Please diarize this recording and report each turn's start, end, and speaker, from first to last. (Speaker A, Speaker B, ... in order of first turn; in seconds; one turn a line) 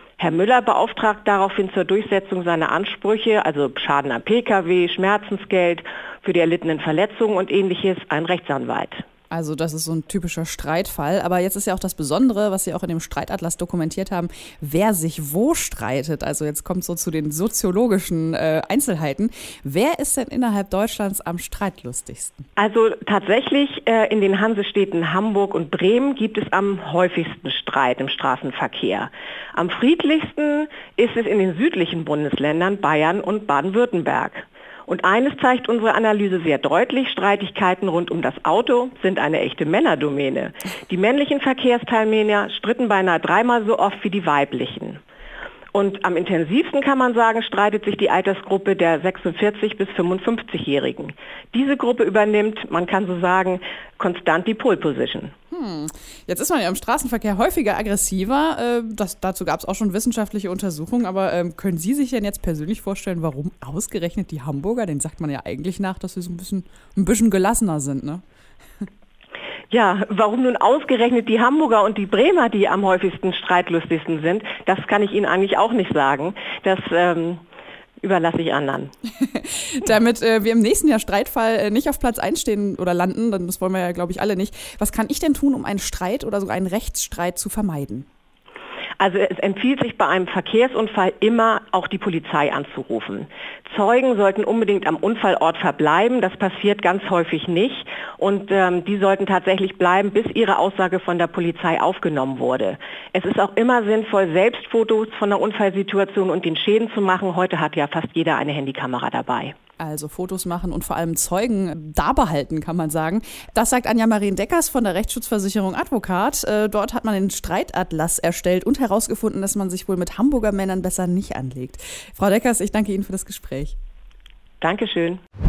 Speaker A: 0.2-9.0
Speaker B: 9.3-22.4
Speaker A: 22.6-45.0
Speaker A: 45.7-55.3
Speaker B: 55.5-68.2
Speaker A: 69.7-77.4
Speaker A: 78.0-78.9
Speaker B: 79.2-88.1
Speaker A: 89.0-109.5
Speaker B: 109.8-123.8
Speaker A: 124.6-125.2